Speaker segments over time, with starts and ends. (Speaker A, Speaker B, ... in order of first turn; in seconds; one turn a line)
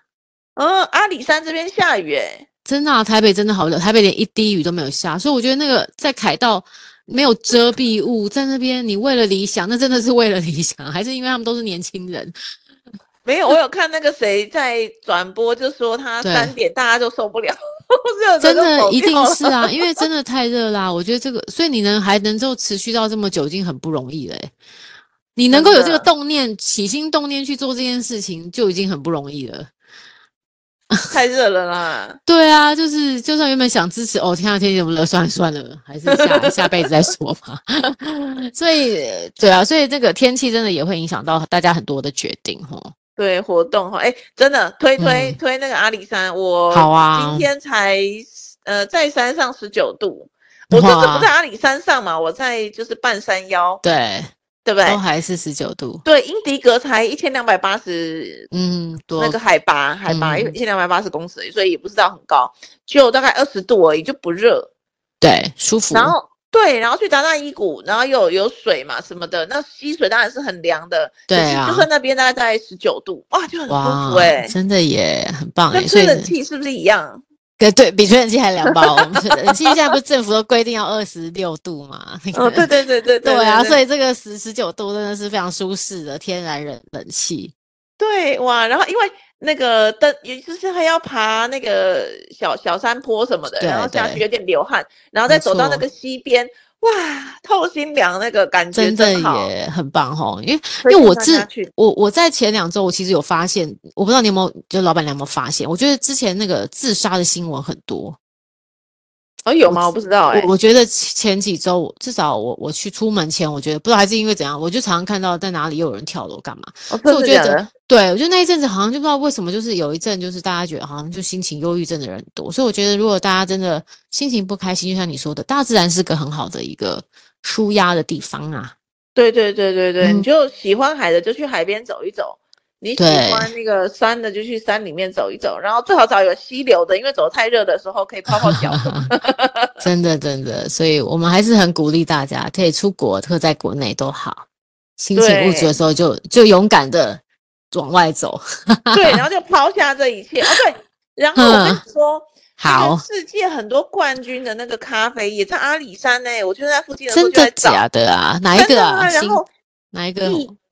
Speaker A: 0.6-2.5
Speaker B: 2.6-12.3
Speaker A: 13.2-20.0
Speaker B: 16.2-16.5
Speaker B: 18.4-24.5
Speaker B: 25.4-29.7
Speaker A: 25.5-26.1
Speaker A: 31.1-32.2
Speaker B: 32.2-42.9
Speaker A: 36.1-36.9
Speaker A: 43.2-53.8
Speaker B: 45.0-45.4
Speaker B: 46.7-47.5
Speaker B: 50.7-51.3
Speaker B: 53.8-54.3
Speaker A: 54.6-55.0
Speaker B: 54.8-56.0
Speaker A: 56.0-58.5
Speaker B: 58.5-59.4
Speaker A: 59.2-64.7
Speaker B: 60.1-60.5
Speaker B: 65.2-66.1
Speaker A: 65.9-74.5
Speaker B: 71.3-71.9
Speaker B: 73.7-76.3
Speaker A: 75.7-77.2
Speaker B: 77.6-82.7
Speaker A: 78.7-79.8
Speaker A: 82.3-83.8
Speaker B: 83.2-87.5
Speaker A: 88.0-99.5
Speaker B: 93.6-94.2
Speaker B: 95.3-95.8
Speaker B: 98.7-108.2
Speaker A: 100.8-101.7
Speaker A: 109.5-110.5
Speaker B: 109.6-128.7
Speaker A: 116.9-117.7
Speaker A: 129.1-139.8
Speaker B: 130.0-130.3
Speaker B: 133.0-133.5
Speaker B: 138.3-139.1
Speaker B: 139.8-144.4
Speaker B: 145.0-147.2
Speaker A: 145.1-145.8
Speaker B: 147.7-149.2
Speaker A: 148.9-157.8
Speaker B: 151.3-151.8
Speaker B: 152.6-153.0
Speaker B: 157.1-160.5
Speaker A: 158.5-159.5